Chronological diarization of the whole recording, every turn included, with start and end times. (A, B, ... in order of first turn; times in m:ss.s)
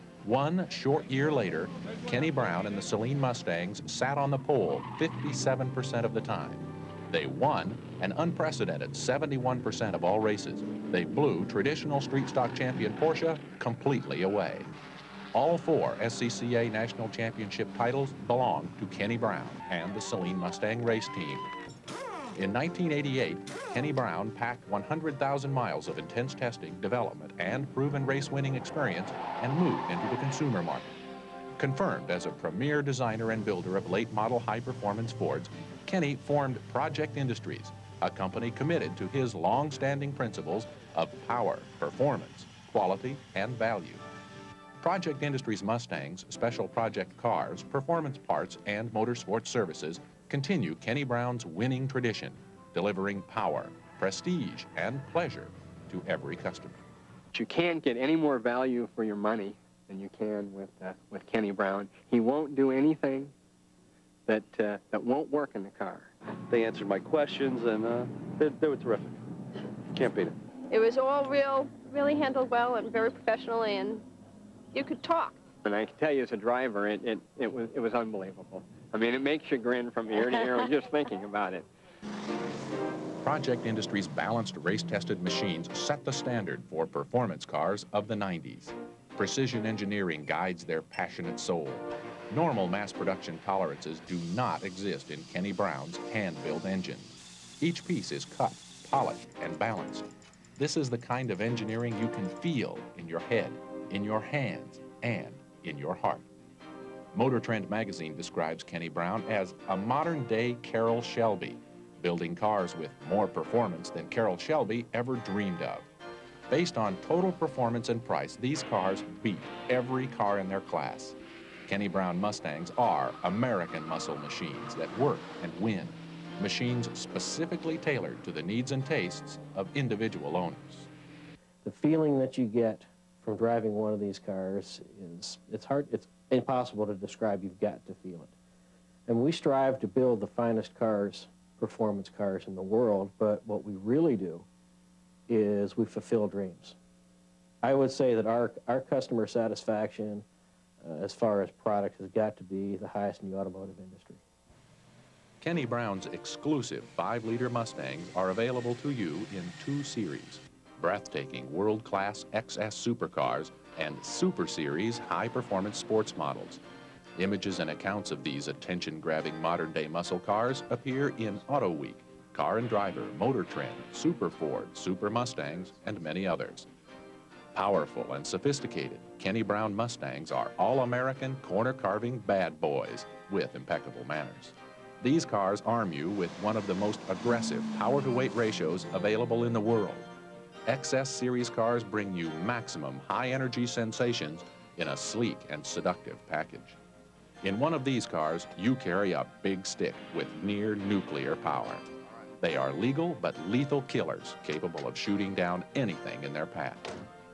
0:00.2-0:14.7 A
0:15.3-0:21.4 A
0:22.4-0:31.0 A
0:31.6-0:44.0 A
0:44.8-0:56.8 A
0:57.3-1:03.3 B
1:04.3-1:06.1 B
1:06.5-1:09.2 C
1:09.9-1:10.3 C
1:10.7-1:14.0 D
1:14.7-1:15.4 D
1:15.6-1:21.7 B
1:23.2-1:46.3 A
1:47.1-1:55.9 A
1:56.5-2:10.9 A
2:11.6-2:18.3 E
2:19.1-2:24.5 E
2:25.3-2:26.8 E
2:27.6-2:30.2 E
2:30.8-2:34.2 E
2:35.4-2:46.6 A
2:47.2-2:56.7 A
2:57.5-3:10.1 A
3:10.7-3:16.8 A
3:17.4-3:21.8 A
3:22.4-3:27.0 A